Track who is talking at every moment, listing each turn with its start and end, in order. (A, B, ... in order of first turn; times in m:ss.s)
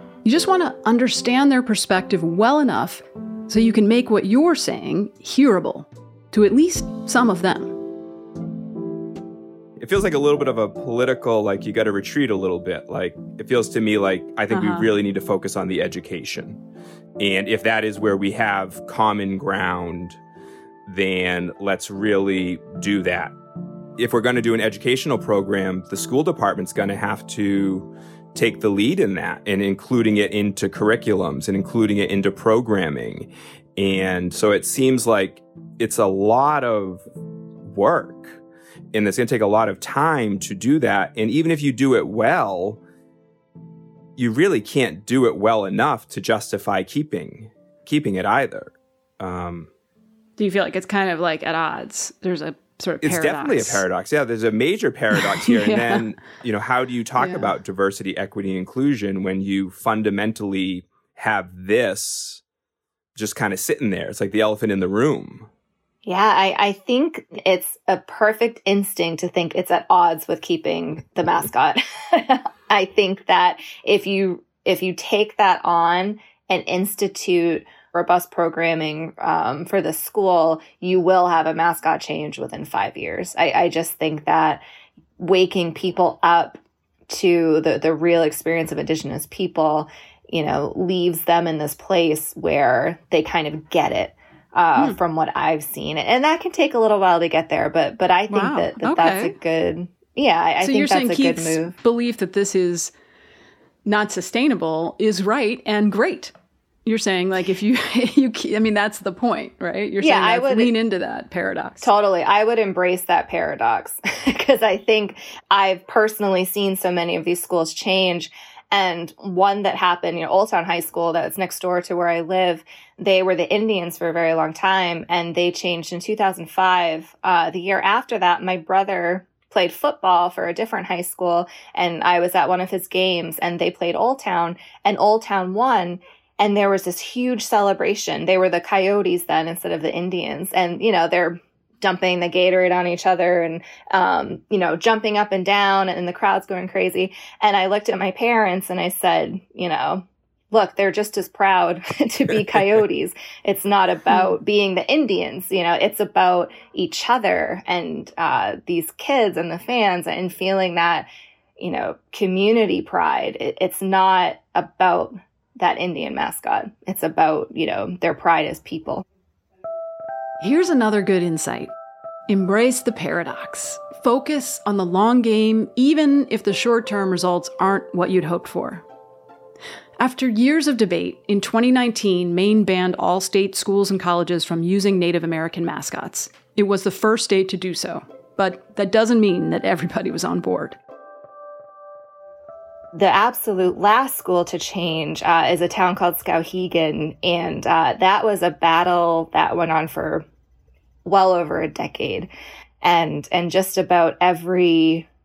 0:00.2-0:07.8 A
0:09.8-0:16.6 B
0:14.5-0:14.9 A
0:17.2-0:20.2 B
0:20.9-0:23.3 B
0:24.0-0:37.0 B
0:37.6-0:38.4 B
0:38.9-0:42.8 B
0:44.2-0:49.7 B
0:50.4-0:53.8 A
0:53.0-1:02.4 B
0:55.2-0:56.1 A
0:57.2-0:57.5 A
1:03.2-1:05.5 B
1:06.0-1:24.6 C
1:25.2-1:41.7 C
1:38.3-1:39.4 A
1:40.6-1:42.9 A
1:43.9-1:46.3 A
1:46.9-1:51.9 A
1:50.0-1:50.7 C
1:51.8-2:49.0 C
2:50.4-2:51.7 A
2:52.3-2:58.8 A
3:00.0-3:10.8 A
3:12.9-3:20.2 C
3:21.0-3:22.3 C
3:22.8-3:25.1 C